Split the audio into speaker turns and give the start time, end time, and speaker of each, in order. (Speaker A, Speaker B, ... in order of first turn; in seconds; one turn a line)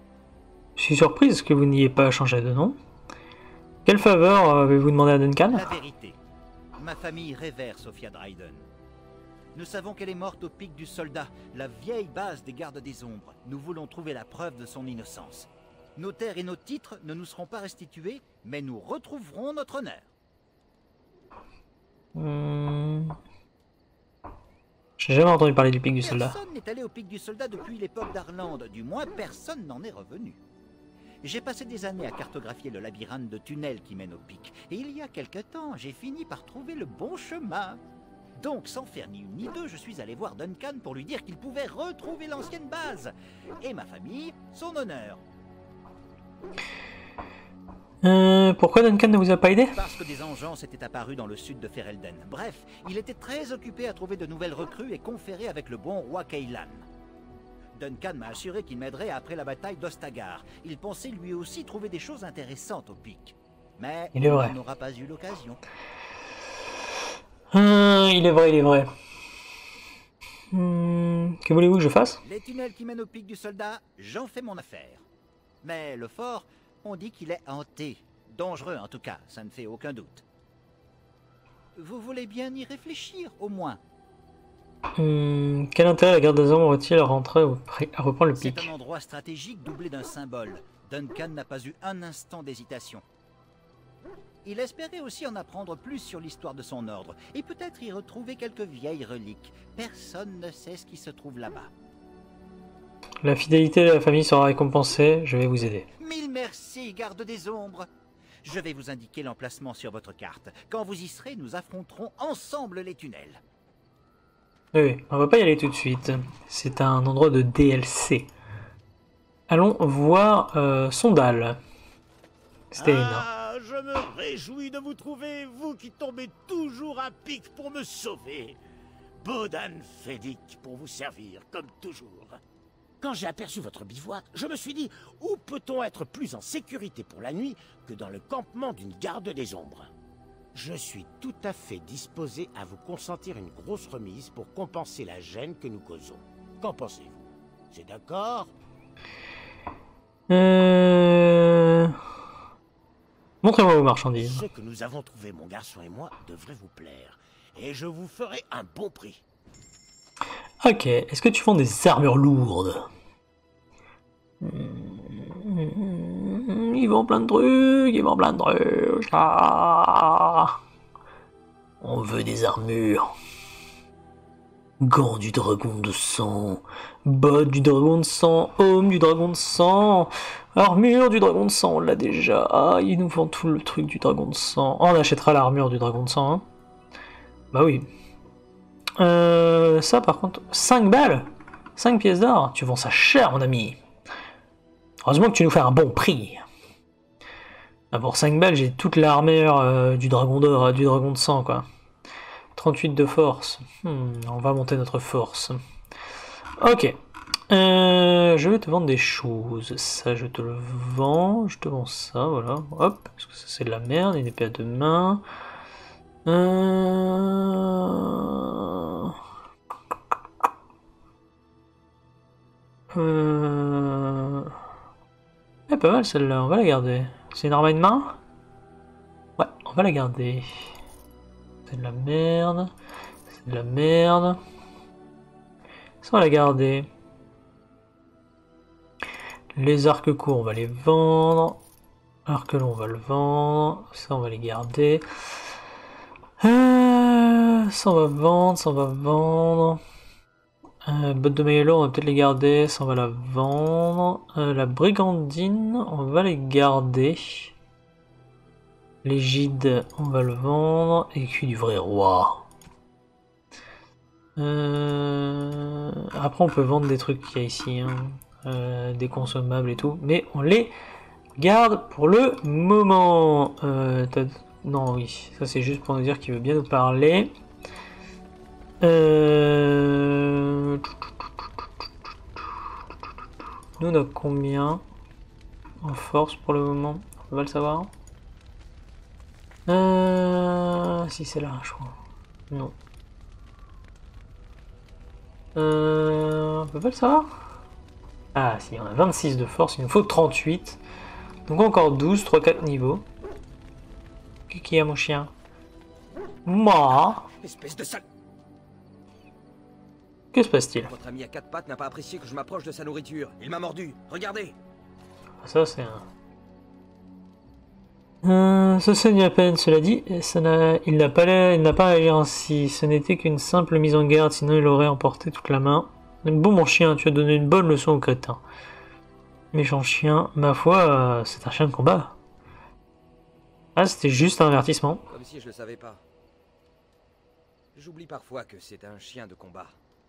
Speaker A: 0.8-2.8
Speaker A: 3.9-5.7
Speaker B: 5.5-6.2
Speaker B: 6.8-8.7
Speaker B: 9.6-20.1
Speaker A: 22.1-23.2
Speaker A: 25.0-26.4
Speaker B: 26.0-30.4
Speaker B: 31.2-37.8
Speaker B: 38.4-45.2
Speaker A: 48.0-49.7
Speaker B: 49.8-56.9
Speaker B: 57.8-65.6
Speaker A: 64.2-64.5
Speaker A: 67.5-68.9
Speaker A: 70.5-72.2
Speaker B: 72.2-75.0
Speaker B: 75.6-80.2
Speaker B: 81.8-83.8
Speaker A: 85.0-88.7
Speaker B: 88.3-93.0
Speaker B: 94.4-101.7
Speaker A: 103.2-105.9
Speaker B: 106.0-107.9
Speaker B: 108.4-113.4
Speaker A: 114.7-118.3
Speaker A: 119.5-121.6
Speaker A: 122.7-123.2
Speaker C: 123.1-128.6
Speaker C: 129.2-132.4
Speaker C: 133.0-139.9
Speaker C: 140.6-148.5
Speaker A: 150.3-152.0
Speaker A: 153.4-154.4
Speaker C: 154.2-159.2
Speaker A: 160.6-162.9
Speaker A: 164.4-170.6
Speaker A: 171.8-173.1
Speaker A: 174.8-186.4
Speaker A: 187.5-187.9
Speaker A: 189.0-193.8
Speaker A: 195.1-196.4
Speaker A: 197.9-201.7
Speaker A: 202.6-205.6
Speaker A: 206.6-207.0
Speaker A: 207.5-215.2
Speaker A: 216.2-219.1
Speaker A: 222.9-224.5
Speaker A: 225.7-228.2
Speaker A: 229.4-230.5
Speaker A: 231.7-232.7
Speaker A: 233.3-234.4
Speaker A: 236.0-236.9
Speaker A: 239.6-241.6
Speaker A: 242.3-245.0
Speaker A: 246.4-249.8
Speaker A: 250.8-257.5
Speaker A: 259.0-262.4
Speaker A: 264.4-270.7
Speaker A: 271.4-277.3
Speaker A: 278.8-280.9
Speaker A: 283.8-284.8
Speaker A: 285.8-287.9
Speaker A: 289.7-292.0
Speaker A: 295.6-297.3
Speaker A: 298.4-300.8
Speaker A: 301.5-303.1
Speaker A: 304.5-305.3
Speaker A: 306.5-307.3
Speaker D: 307.4-308.0
Speaker A: 310.3-310.9
Speaker D: 310.8-314.6
Speaker A: 315.4-316.1
Speaker A: 318.2-328.4
Speaker A: 329.5-332.1
Speaker A: 333.8-335.0
Speaker D: 335.1-336.1
Speaker D: 337.7-339.8